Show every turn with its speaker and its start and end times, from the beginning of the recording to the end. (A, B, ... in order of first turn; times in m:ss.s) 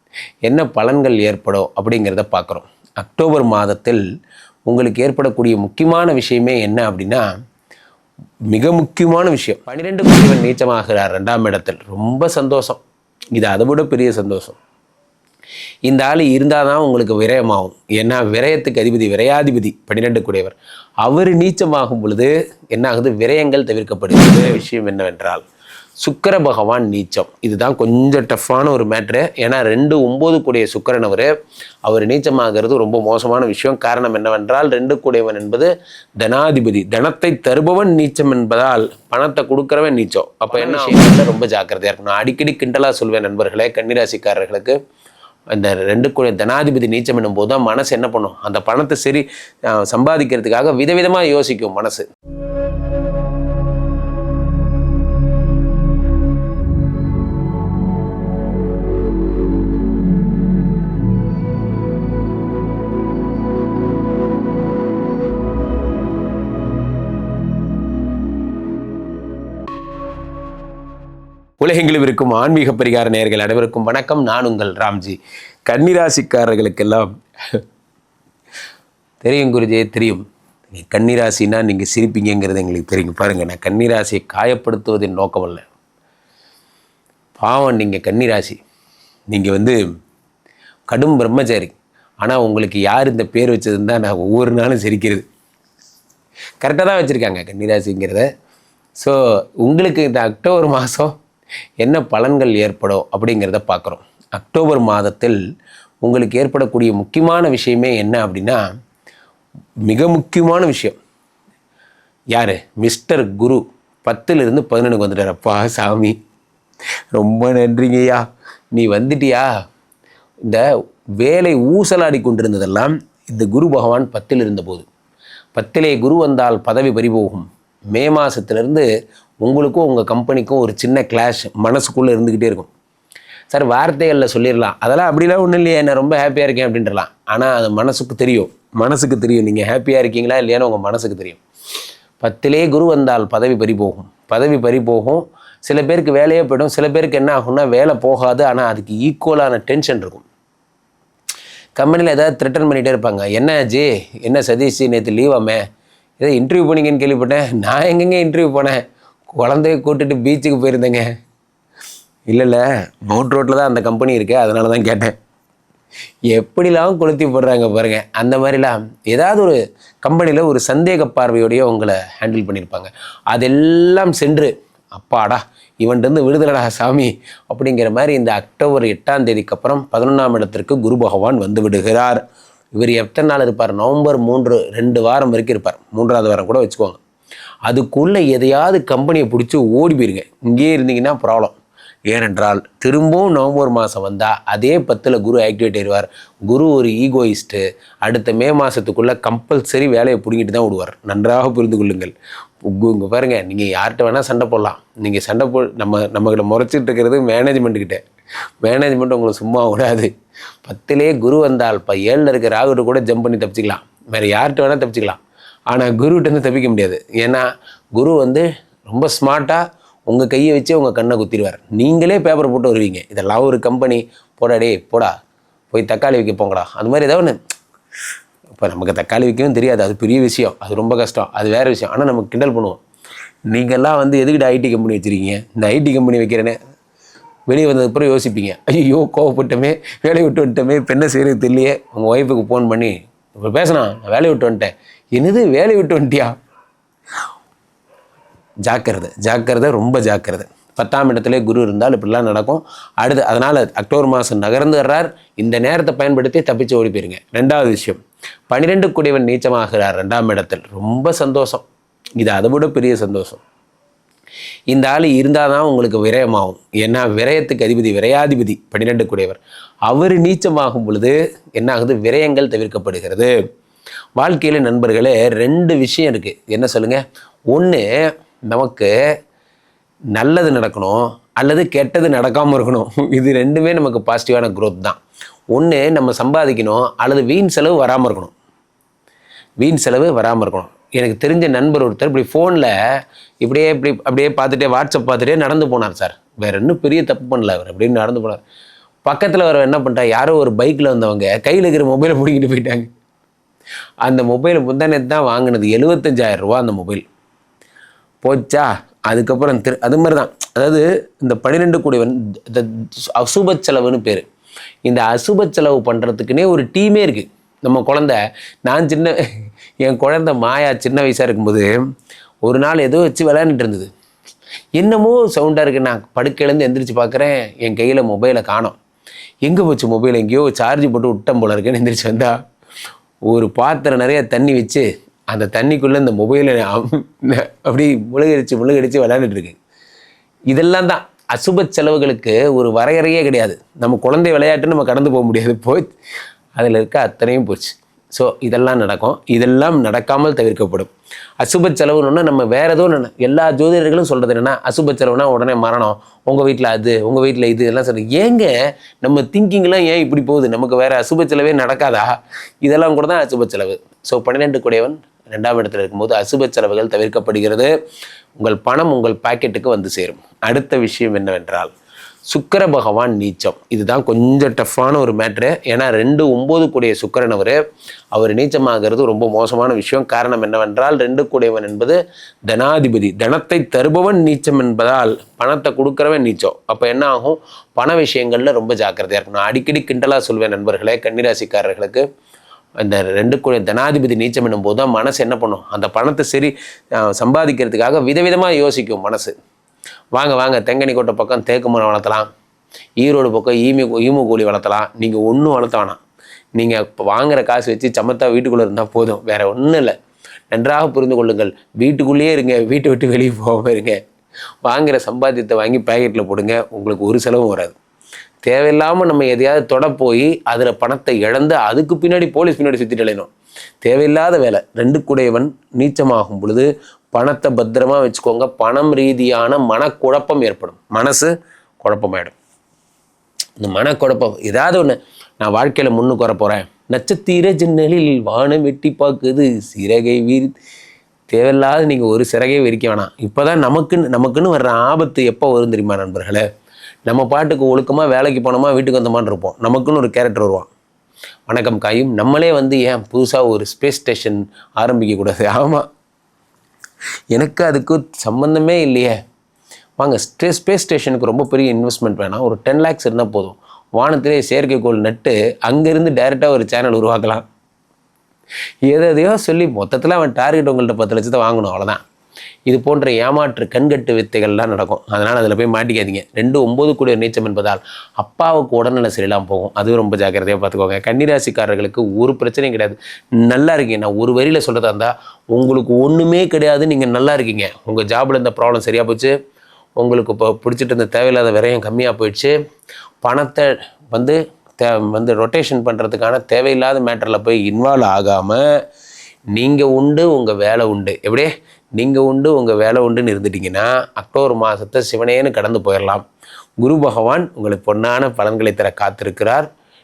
0:00.4-0:04.0 A
0:04.7-0:07.3 A
0:08.5-0:12.8 A
0:13.3-0:14.6 A
0:15.9-0:25.4 A
0:26.0-0:31.3 A
0:31.8-0:44.8 A
0:45.5-0:52.0 A
1:11.6-1:17.6 A
1:19.2-1:25.6 A
1:27.4-1:28.6 A
1:29.3-1:29.8 A
1:30.9-1:35.2 A
1:36.6-1:38.3 A
1:39.0-1:41.1 A
1:41.8-1:45.4 A
1:46.0-1:48.6 A
1:49.9-1:51.0 A
1:52.3-1:56.2 A
1:57.1-1:59.5 A
2:01.2-2:04.9 A
2:05.5-2:08.9 A
2:09.4-2:12.7 A
2:13.5-2:21.4 A
2:22.2-2:30.2 A
2:31.8-2:35.6 A
2:36.2-2:41.1 A
2:42.3-2:45.1 A
2:46.3-3:02.2 A
3:02.8-3:07.0 A
3:07.6-3:11.5 A
3:12.1-3:22.1 A
3:22.6-3:28.0 A
3:28.6-3:30.1 A
3:30.6-3:37.4 A
3:38.0-3:45.1 A
3:45.7-3:47.4 A
3:48.5-3:52.8 A
3:53.5-3:56.6 A
3:57.5-4:06.3 A
4:08.6-4:21.6 A
4:22.2-4:23.4 A
4:24.7-4:33.3 A
4:34.2-4:37.8 A
4:38.5-4:38.9 A
4:40.1-4:45.0 A
4:45.5-4:48.3 A
4:49.6-4:52.7 A
4:53.4-4:58.4 A
4:59.0-5:02.9 A
5:04.0-5:07.0 A
5:08.2-5:14.2 A
5:14.8-5:21.8 A
5:22.4-5:23.9 A
5:24.8-5:28.8 A
5:29.4-5:32.4 A
5:33.3-5:39.6 A
5:40.5-5:45.9 A
5:46.6-6:02.1 A
6:02.6-6:07.7 A
6:08.4-6:11.7 A
6:12.3-6:17.6 A
6:18.1-6:32.0 A
6:32.8-6:39.3 A
6:40.1-6:42.3 A
6:43.0-6:46.0 A
6:46.6-6:50.0 A
6:50.5-6:54.0 A
6:54.6-6:57.8 A
6:58.4-7:03.3 A
7:03.8-7:12.3 A
7:13.6-7:20.5 A
7:21.3-7:26.4 A
7:27.1-7:30.7 A
7:31.5-7:35.8 A
7:37.3-7:39.1 A
7:40.0-7:47.4 A
7:48.8-7:52.0 A
7:52.7-8:09.3 A
8:10.0-8:12.5 A
8:13.2-8:18.7 A
8:19.5-8:26.2 A
8:26.8-8:29.7 A